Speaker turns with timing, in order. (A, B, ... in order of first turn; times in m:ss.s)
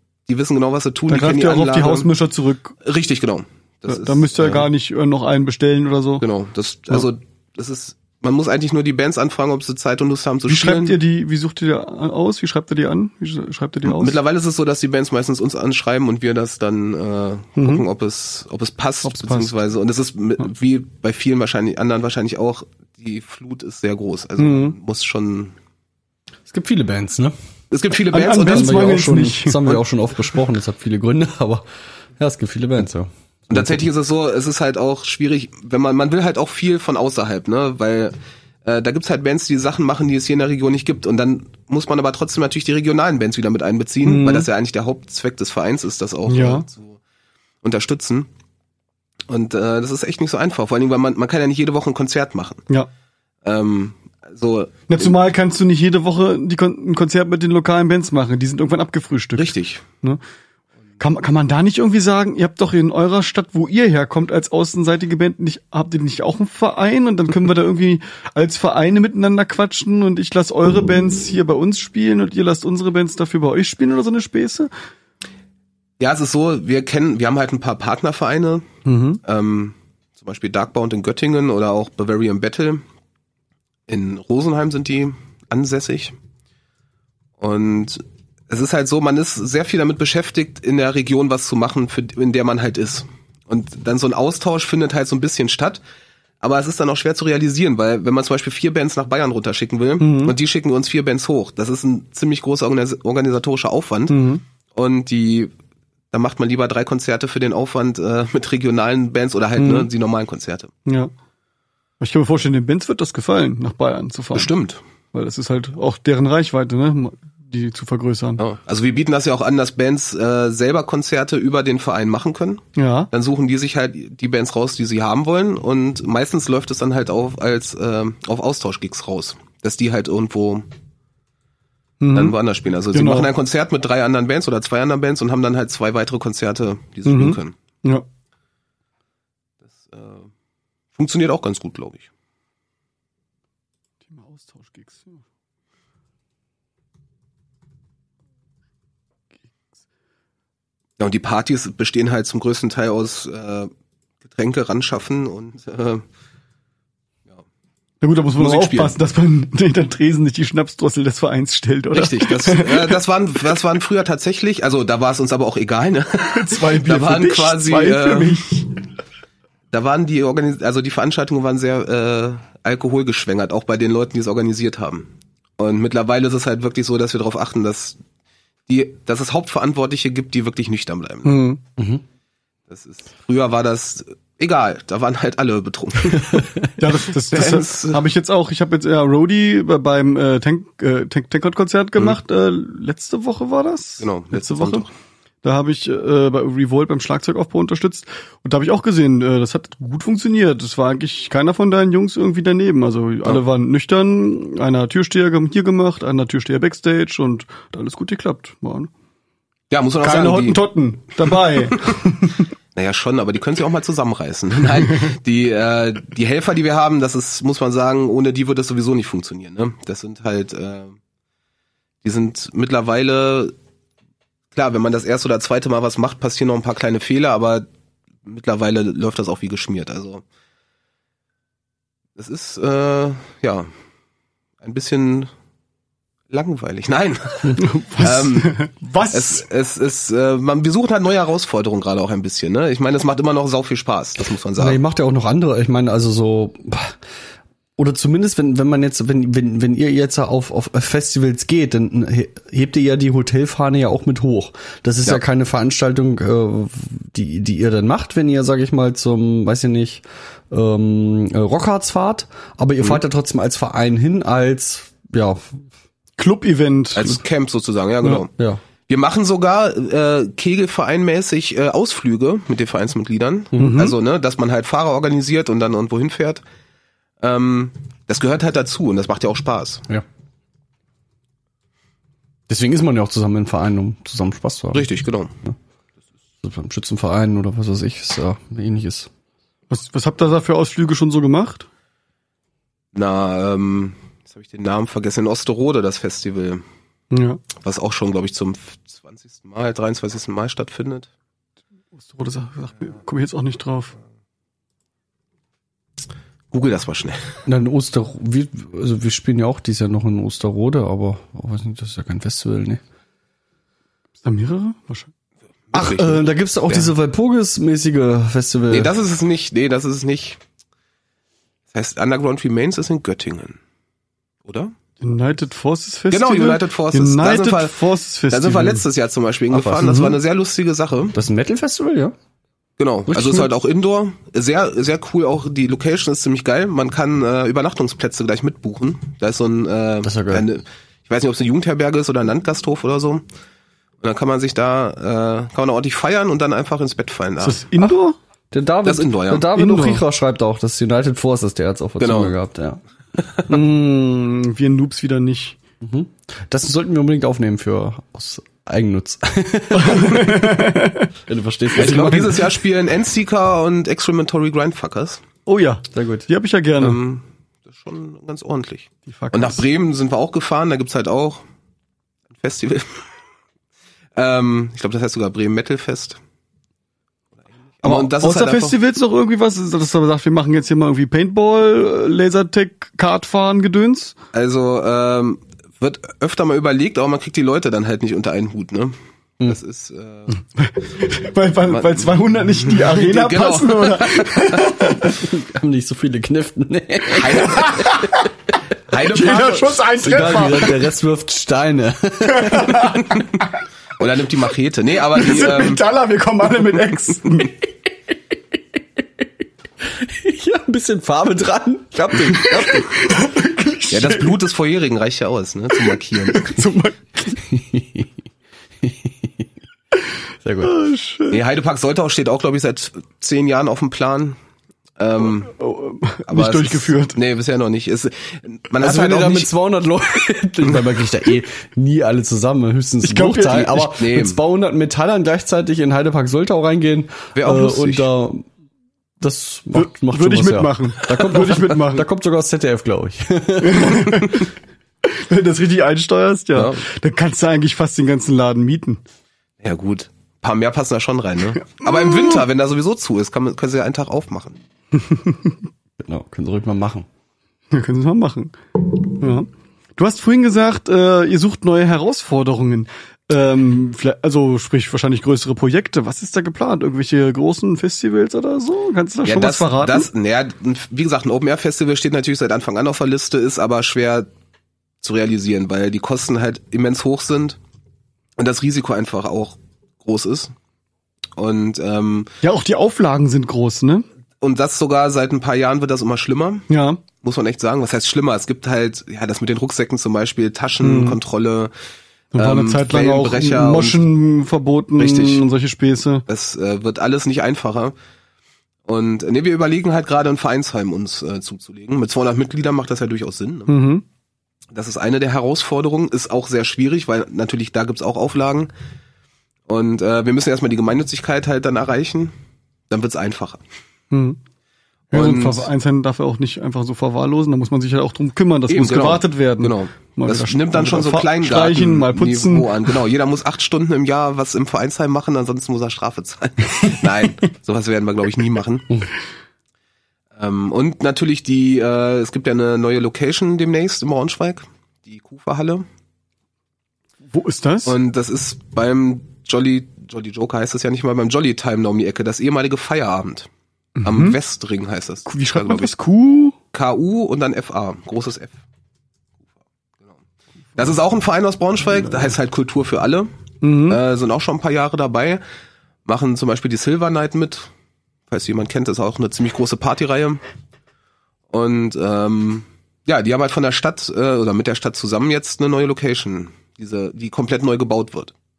0:00.3-0:02.1 A
0:01.1-0:02.8 B
0:02.8-0:04.7 A
0:03.9-0:06.2 B
0:06.2-0:11.0 A
0:10.5-0:14.2 B
0:13.8-0:25.5 A
0:17.6-0:17.8 B
0:19.0-0:19.6 B
0:24.4-0:24.8 B
0:26.4-0:27.3 C
0:27.7-0:29.1 A
0:28.1-0:29.8 B
0:28.4-0:33.8 C
0:33.5-0:47.0 A
0:44.0-0:44.5 B
0:46.3-0:46.6 B
0:47.6-0:48.3 A
0:49.3-0:52.6 A
0:53.4-0:55.1 A
0:54.9-1:00.2 B
0:59.4-0:59.8 A
1:01.0-1:14.7 B
1:16.0-1:18.7 A
1:18.8-1:19.2 B
1:19.2-1:22.8 A
1:23.9-1:26.1 A
1:27.4-1:35.8 A
1:36.4-1:45.5 A
1:40.0-1:40.3 B
1:44.1-1:44.4 B
1:46.1-1:50.7 A
1:49.6-1:49.9 B
1:50.8-1:51.1 B
1:52.0-1:54.5 B
1:54.3-1:54.8 A
1:55.1-1:58.4 B
1:58.4-2:10.7 A
2:02.8-2:03.1 B
2:12.0-2:12.3 B
2:12.1-2:17.5 A
2:12.9-2:13.3 B
2:17.1-2:18.0 B
2:19.7-2:20.3 A
2:21.0-2:22.1 A
2:24.1-2:25.2 B
2:31.0-2:33.7 A
2:34.2-2:36.0 A
2:38.0-2:43.0 B
2:38.4-2:38.9 A
2:41.9-2:48.4 A
2:46.3-2:48.7 B
2:49.7-2:58.0 A
2:58.7-3:01.5 A
3:01.2-3:01.6 B
3:01.8-3:02.0 C
3:02.7-3:06.5 A
3:06.3-3:06.7 C
3:06.8-3:14.8 B
3:07.3-3:08.0 A
3:14.0-3:14.9 A
3:15.4-3:28.9 B
3:29.7-3:30.6 A
3:30.0-3:32.4 B
3:32.7-3:41.0 A
3:42.0-3:43.5 A
3:44.5-3:47.7 A
3:48.2-3:50.2 A
3:52.2-3:53.7 A
3:54.6-3:55.3 A
3:56.3-3:58.5 A
3:57.6-3:59.4 B
3:59.1-4:04.8 A
4:04.6-4:07.0 C
4:07.8-4:25.6 C
4:26.2-4:27.2 B
4:26.9-4:28.3 A
4:28.4-4:28.6 C
4:28.9-4:36.4 A
4:33.6-4:33.9 B
4:37.2-4:39.8 A
4:42.5-4:44.9 C
4:44.7-4:45.3 A
4:46.4-4:49.1 C
4:49.7-4:51.7 B
4:52.9-4:56.6 A
4:57.1-4:57.4 B
4:57.5-5:01.1 A
5:02.0-5:03.9 B
5:06.5-5:07.4 A
5:07.4-5:12.8 C
5:14.2-5:15.1 B
5:15.7-5:16.9 A
5:15.7-5:18.9 C
5:18.7-5:20.4 A
5:21.7-5:23.6 A
5:24.4-5:24.7 A
5:25.0-5:28.8 B
5:26.1-5:27.7 A
5:28.3-5:31.1 A
5:29.5-5:30.0 C
5:29.8-5:30.2 B
5:31.1-5:32.1 C
5:32.8-5:43.2 A
5:33.1-5:33.5 C
5:40.0-5:40.5 C
5:44.0-5:47.6 A
5:47.4-5:48.2 B
5:48.5-5:52.8 C
5:48.8-5:49.5 A
5:49.5-5:50.0 B
5:52.0-5:52.3 A
5:53.5-5:55.6 B
5:55.8-6:02.4 C
5:59.7-6:01.1 B
6:01.7-6:05.2 A
6:05.4-6:07.0 B
6:05.9-6:06.3 C
6:06.8-6:11.4 A
6:09.1-6:09.6 B
6:12.3-6:13.0 A
6:14.2-6:16.2 A
6:17.8-6:18.8 A
6:17.8-6:24.2 B
6:24.3-6:30.4 A
6:30.6-6:35.2 B
6:31.7-6:34.9 A
6:35.0-6:38.1 C
6:37.1-6:37.9 A
6:37.7-6:38.2 B
6:38.9-6:39.8 A
6:39.1-6:40.8 B
6:40.0-6:43.1 C
6:42.2-6:43.2 B
6:44.0-6:45.8 A
6:45.1-6:47.6 B
6:49.8-6:53.1 C
6:52.3-6:54.3 B
6:53.9-6:56.6 A
6:55.8-6:57.4 B
6:57.4-6:58.1 C
6:58.8-6:59.5 C
7:00.4-7:00.7 C
7:00.6-7:01.4 B
7:01.3-7:04.4 A
7:05.0-7:05.5 A
7:05.6-7:07.2 B
7:06.3-7:09.5 A
7:08.8-7:18.4 C
7:13.0-7:13.9 B
7:13.9-7:14.4 A
7:17.3-7:18.1 A
7:19.2-7:24.3 C
7:19.7-7:22.1 B
7:23.6-7:24.5 B
7:25.0-7:29.0 B
7:26.5-7:26.8 A
7:29.6-7:34.6 A
7:31.8-7:32.4 B
7:34.9-7:35.6 B
7:36.0-7:37.1 C
7:37.7-7:50.1 B
7:49.2-7:54.3 A
7:55.0-7:57.6 A
7:58.4-8:00.5 A
8:01.4-8:02.3 A
8:02.4-8:04.0 B
8:04.4-8:06.6 A
8:06.7-8:07.0 B
8:07.2-8:11.7 A
8:10.8-8:11.2 B
8:12.3-8:16.2 B
8:12.4-8:14.0 A
8:15.0-8:15.4 A
8:16.3-8:17.9 A
8:18.8-8:23.7 A
8:23.7-8:24.0 B
8:24.7-8:28.7 A
8:29.7-8:32.3 A
8:32.9-8:33.6 A
8:34.1-8:34.4 B
8:35.1-8:43.0 B
8:35.1-8:35.7 A
8:38.7-8:48.9 A
8:50.4-8:55.8 A
8:57.3-8:57.9 B
8:57.8-9:03.5 A
9:04.0-9:04.4 B
9:04.0-9:05.9 A
9:05.2-9:06.6 B
9:06.7-9:08.6 A
9:10.8-9:13.3 A
9:13.6-9:14.0 B
9:13.9-9:15.4 A
9:16.0-9:17.7 A
9:18.3-9:20.4 A
9:21.5-9:28.3 A